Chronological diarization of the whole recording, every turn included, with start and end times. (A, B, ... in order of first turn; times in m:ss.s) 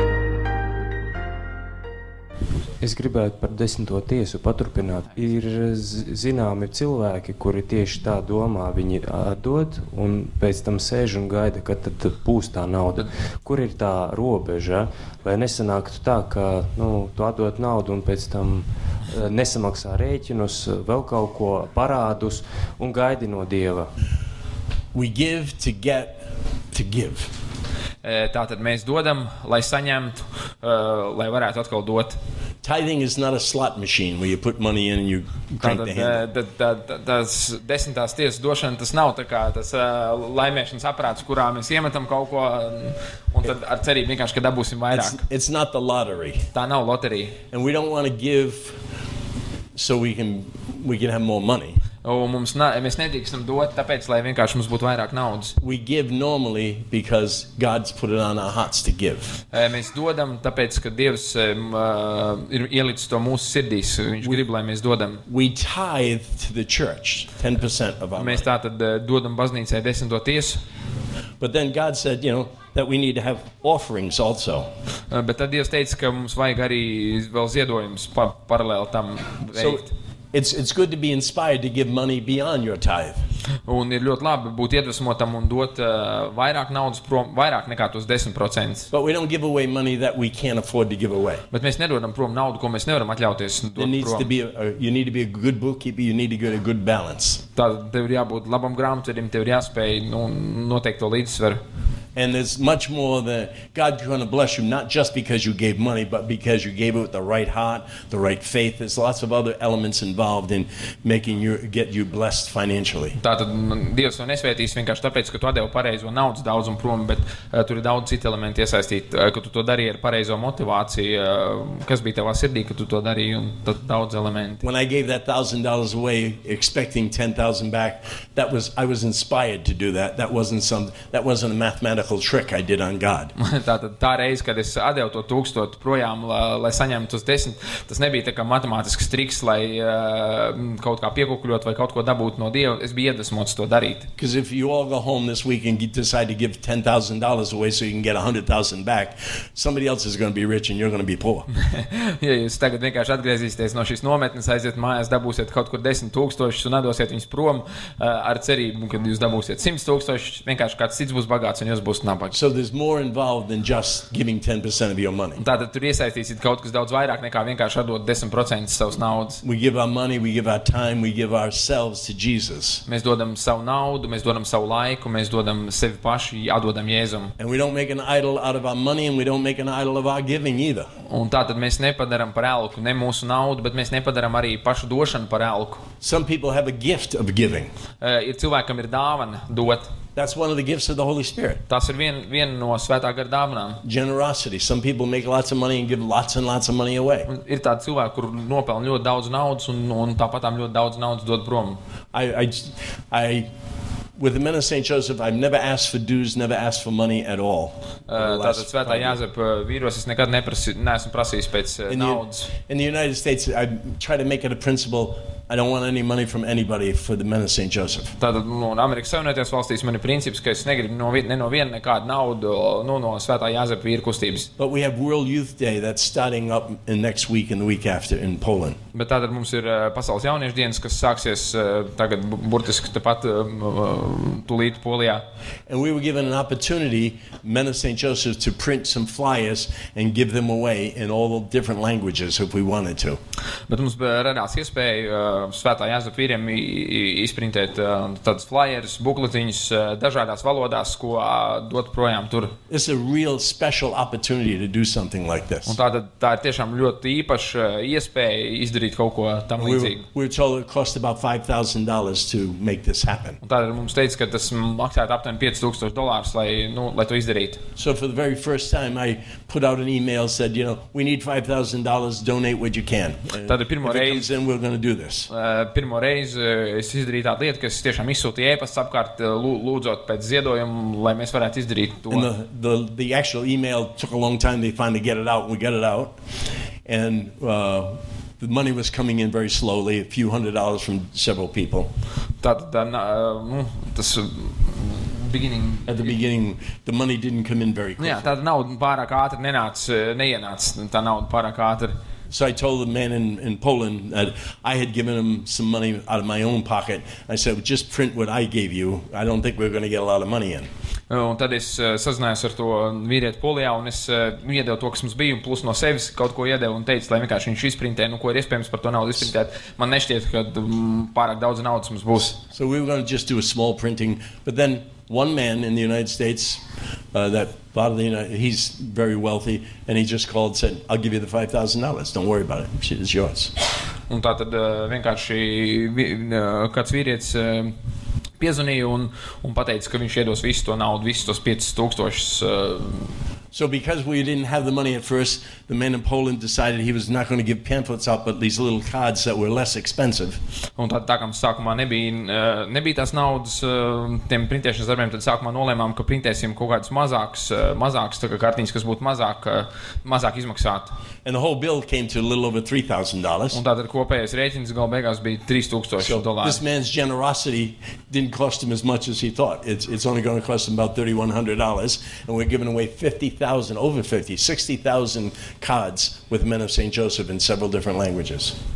0:02.8-0:23.9 A
0:24.9-0:27.3 B
0:28.0-0:32.2 C
0:32.6-0:36.2 B
0:35.6-0:45.2 C
0:44.9-0:46.5 B
0:46.5-0:47.4 C
0:47.5-0:48.8 B
0:49.7-0:51.8 B
0:52.0-0:55.6 C
0:55.6-0:59.4 B
0:59.5-1:05.2 C
1:05.3-1:08.5 B
1:08.2-1:10.6 C
1:11.4-1:14.7 B
1:15.1-1:19.9 C
1:19.5-1:23.2 B
1:23.6-1:28.9 C
1:28.9-1:31.4 B
1:31.5-1:34.3 C
1:33.8-1:37.4 B
1:37.6-1:41.6 C
1:42.1-1:53.2 B
1:53.2-2:04.6 C
2:04.6-2:13.3 B
2:13.4-2:24.1 C
2:24.2-2:31.5 B
2:31.6-2:42.4 C
2:42.3-2:45.4 B
2:45.4-2:49.4 C
2:49.4-2:52.8 B
2:52.9-2:57.3 C
2:57.4-3:00.9 B
3:01.0-3:05.8 C
3:06.0-3:07.7 B
3:08.0-3:09.9 C
3:10.1-3:11.6 B
3:11.7-3:13.8 C
3:13.8-3:17.3 B
3:17.3-3:21.8 C
3:22.1-3:23.5 B
3:24.2-3:29.2 B
3:28.1-3:32.5 C
3:31.9-3:38.1 B
3:38.2-3:44.5 C
3:44.6-3:48.8 B
3:48.9-3:55.2 C
3:55.7-4:03.2 B
4:03.7-4:12.6 C
4:12.7-4:15.8 B
4:15.6-4:20.0 C
4:19.6-4:23.4 B
4:23.4-4:27.6 C
4:27.8-4:35.3 B
4:33.4-4:34.3 C
4:35.3-4:42.3 C
4:42.1-4:46.1 B
4:46.8-4:51.9 B
4:52.4-4:56.1 C
4:55.9-4:58.3 B
4:58.0-5:02.0 C
5:02.3-5:10.7 B
5:11.1-5:22.4 C
5:22.5-5:33.5 B
5:34.1-5:37.7 C
5:38.4-5:43.1 C
5:43.5-5:50.4 B
5:50.8-6:00.9 C
6:01.2-6:03.6 B
6:03.5-6:06.6 C
6:06.0-6:18.6 B